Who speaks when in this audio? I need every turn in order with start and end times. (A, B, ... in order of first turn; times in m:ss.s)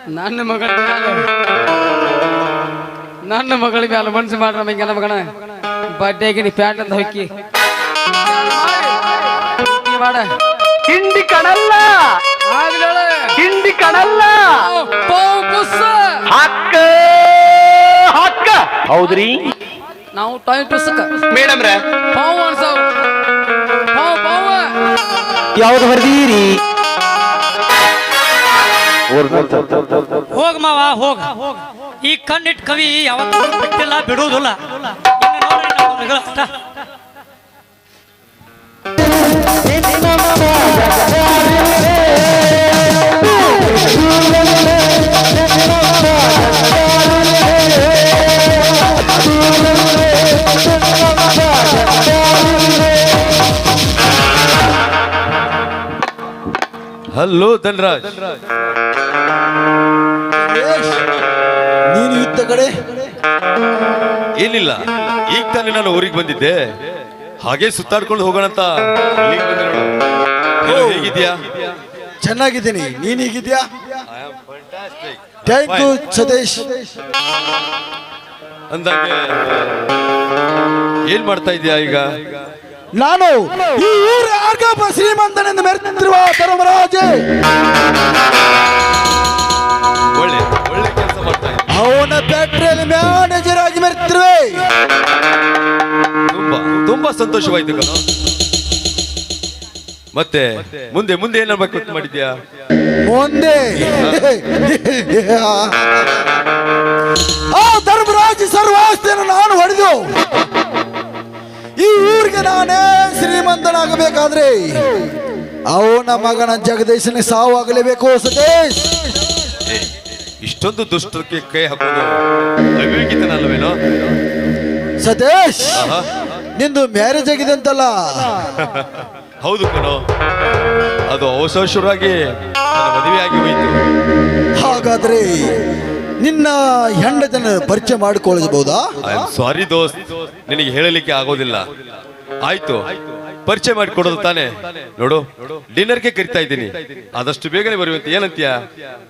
0:00.1-0:01.2 A
0:03.3-0:05.3 A
0:05.9-0:07.3 A
0:08.1-0:10.3 A
0:10.9-0:12.1 B
0:12.5-0:13.3 A
0:13.4-0:14.6 B
0:14.6-0:16.2 A
0:16.3-0:19.4 B
0:20.1-0:21.2 A
0:21.3-0:21.8 B
0:22.1-0:22.9 A
0:23.9-0:24.7 A
0:25.6-0:26.6 B
0:29.2-0:29.8 B
0:30.3-0:36.6 C
0:57.1-0:58.3 D
1:00.3-1:01.0 E
1:01.9-1:03.1 E
1:04.4-1:06.6 D
1:07.4-1:09.9 D
1:10.6-1:11.7 D
1:10.6-1:11.1 E
1:12.2-1:14.0 E
1:14.1-1:15.9 D
1:15.4-1:17.0 E
1:18.7-1:19.7 D
1:21.1-1:22.4 D
1:23.0-1:27.1 E
1:30.1-1:31.6 D
1:31.7-1:34.6 E
1:36.3-1:38.0 D
1:40.1-1:42.3 D
1:43.0-1:46.2 E
1:47.5-1:50.1 E
1:51.8-1:54.8 E
1:55.7-1:59.0 E
2:00.4-2:02.1 D
2:02.8-2:03.8 D
2:05.0-2:05.9 E
2:05.8-2:06.1 D
2:06.6-2:08.4 E
2:08.6-2:10.0 D
2:11.1-2:12.2 D
2:12.7-2:13.7 D
2:14.6-2:15.6 E
2:16.2-2:19.3 E
2:19.0-2:21.7 D
2:22.4-2:28.5 D